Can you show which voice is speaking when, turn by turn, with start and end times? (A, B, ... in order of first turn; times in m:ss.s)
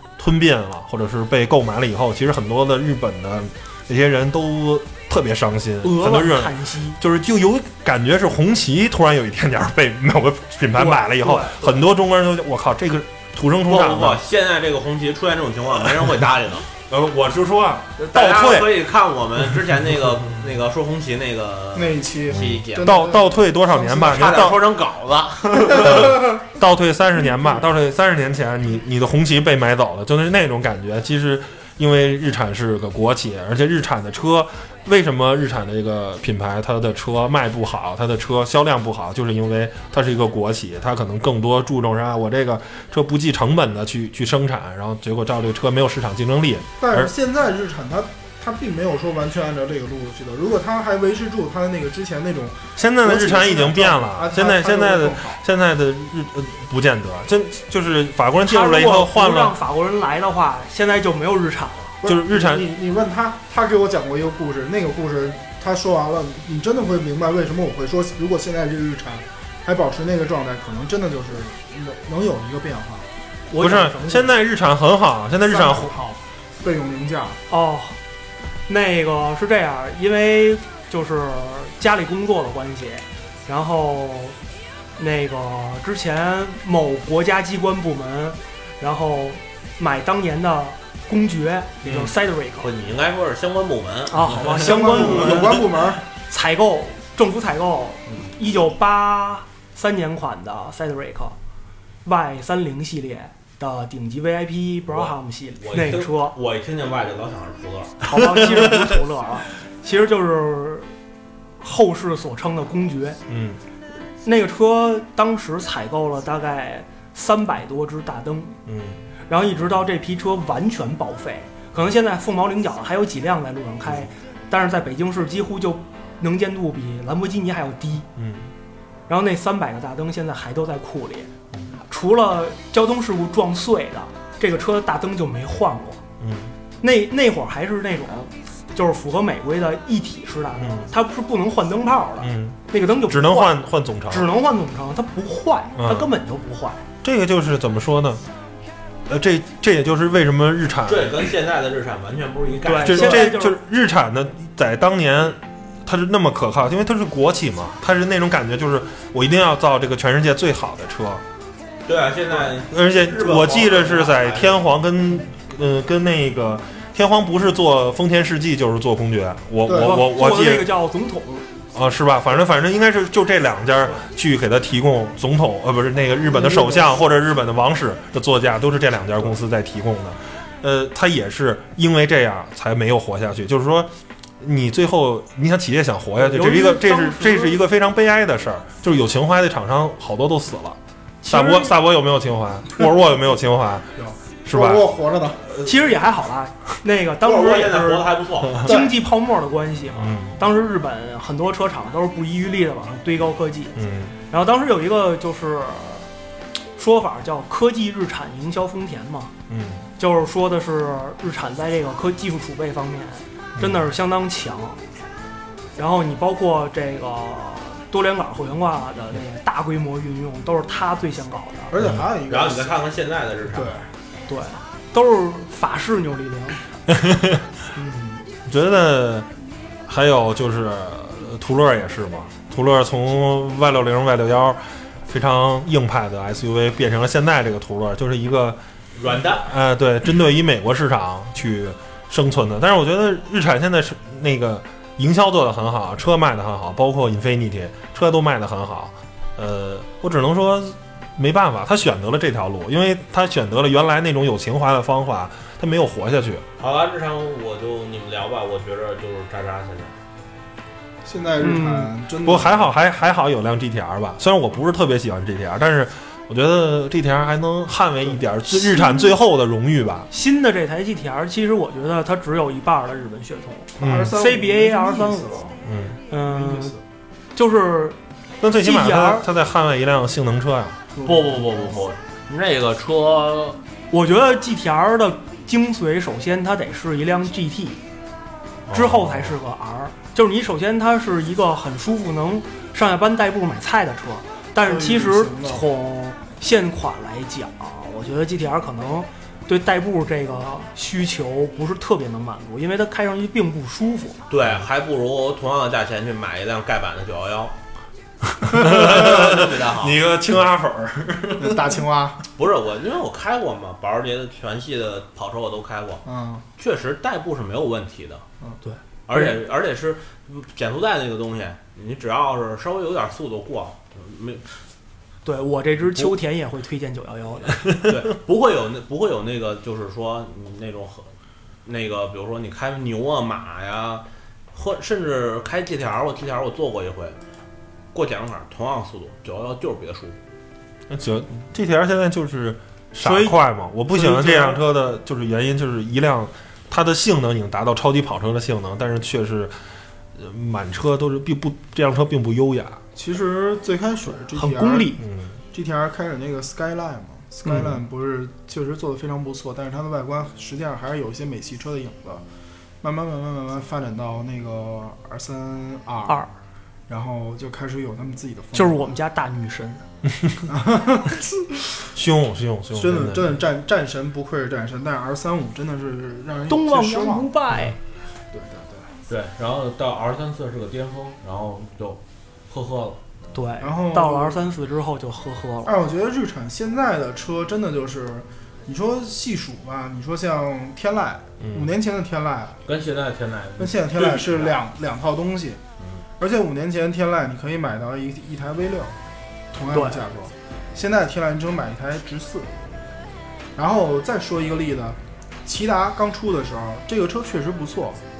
0:00.2-0:14.2 A
0:05.8-0:07.0 B
0:10.8-0:11.8 B
0:13.7-0:16.7 C
0:16.9-0:18.8 A
0:18.0-0:23.0 C
0:21.8-0:24.2 D
0:22.3-0:24.7 A
0:23.8-0:26.1 C
0:25.6-0:26.4 D
0:25.6-0:47.1 A
0:46.8-0:55.4 D
0:52.8-0:59.6 A
0:58.4-1:02.0 B
1:02.0-1:13.1 D
1:02.0-1:02.7 A
1:13.5-1:14.4 B
1:13.6-1:16.0 A
1:15.5-1:17.4 D
1:17.5-1:18.0 B
1:18.7-1:24.4 B
1:25.0-1:32.7 B
1:32.6-1:34.9 C
1:34.1-1:35.6 B
1:34.4-1:36.0 D
1:36.3-1:41.4 B
1:42.0-1:46.4 B
1:44.9-1:48.8 C
1:48.0-1:50.9 B
1:51.6-1:53.2 B
1:53.3-1:53.6 A
1:54.2-1:58.6 B
1:58.7-1:59.0 A
1:59.3-2:08.1 B
2:08.2-2:08.5 A
2:09.1-2:11.3 B
2:11.9-2:16.0 B
2:16.2-2:16.5 A
2:16.8-2:26.8 B
2:20.6-2:20.9 A
2:22.2-2:24.3 A
2:25.8-2:26.1 A
2:27.0-2:28.2 A
2:29.1-2:31.3 A
2:30.9-2:33.3 C
2:32.6-2:33.6 B
2:32.8-2:41.2 A
2:41.9-2:44.6 C
2:42.6-2:50.7 A
2:49.7-2:50.0 D
2:49.7-2:51.5 B
2:51.7-3:14.9 A
2:56.3-2:57.1 D
3:06.2-3:07.6 B
3:11.3-3:11.6 B
3:14.0-3:15.4 D
3:15.6-3:23.8 B
3:17.2-3:18.9 C
3:20.0-3:20.4 A
3:23.8-3:24.1 A
3:24.3-3:26.1 B
3:26.8-3:29.3 B
3:29.5-3:29.9 A
3:30.0-3:34.8 B
3:33.6-3:33.9 A
3:35.8-3:41.7 B
3:41.7-3:42.8 D
3:41.8-3:42.0 A
3:42.3-3:43.8 C
3:43.5-3:43.9 D
3:44.3-3:46.6 B
3:46.9-3:47.4 A
3:47.8-3:48.2 B
3:48.5-3:49.3 A
3:49.9-3:58.6 A
3:59.0-3:59.5 C
3:59.4-4:16.4 A
4:16.6-4:20.0 C
4:21.0-4:22.7 D
4:21.4-4:21.9 B
4:22.2-4:30.1 A
4:28.8-4:29.1 B
4:30.1-4:35.4 B
4:33.8-4:35.6 D
4:33.8-4:34.1 A
4:35.6-4:36.0 A
4:36.1-4:36.8 B
4:36.1-4:36.8 D
4:37.4-4:38.0 B
4:38.4-4:40.8 A
4:38.6-4:39.3 B
4:41.0-4:41.8 D
4:41.0-4:43.6 C
4:43.9-4:47.8 B
4:48.7-4:49.4 A
4:48.7-5:04.2 B
4:54.6-4:55.7 D
5:04.3-5:07.6 C
5:08.4-5:11.8 A
5:08.5-5:10.0 C
5:11.4-5:12.2 D
5:12.4-5:16.0 C
5:16.0-5:16.4 D
5:16.6-5:18.2 C
5:19.1-5:24.4 C
5:25.2-5:27.6 B
5:27.8-5:31.1 C
5:31.6-5:37.2 C
5:37.9-5:40.2 C
5:40.9-5:49.6 A
5:43.0-5:43.4 B
5:43.9-5:44.6 B
5:50.2-5:52.8 A
5:53.0-6:02.2 D
5:54.4-5:55.0 B
5:55.0-5:55.3 A
5:57.4-5:57.7 B
6:02.8-6:06.3 D
6:06.9-6:08.9 D
6:08.5-6:09.8 B
6:10.5-6:11.9 D
6:12.0-6:13.4 A
6:12.7-6:17.3 D
6:16.5-6:17.8 B
6:18.3-6:18.9 D
6:19.1-6:23.0 C
6:23.3-6:25.7 B
6:23.6-6:24.4 D
6:25.6-6:32.6 D
6:31.4-6:31.7 A
6:32.7-6:34.6 C
6:33.6-6:35.6 D
6:36.2-6:38.9 D
6:39.5-6:42.5 D
6:39.7-6:40.0 B
6:43.6-6:48.0 D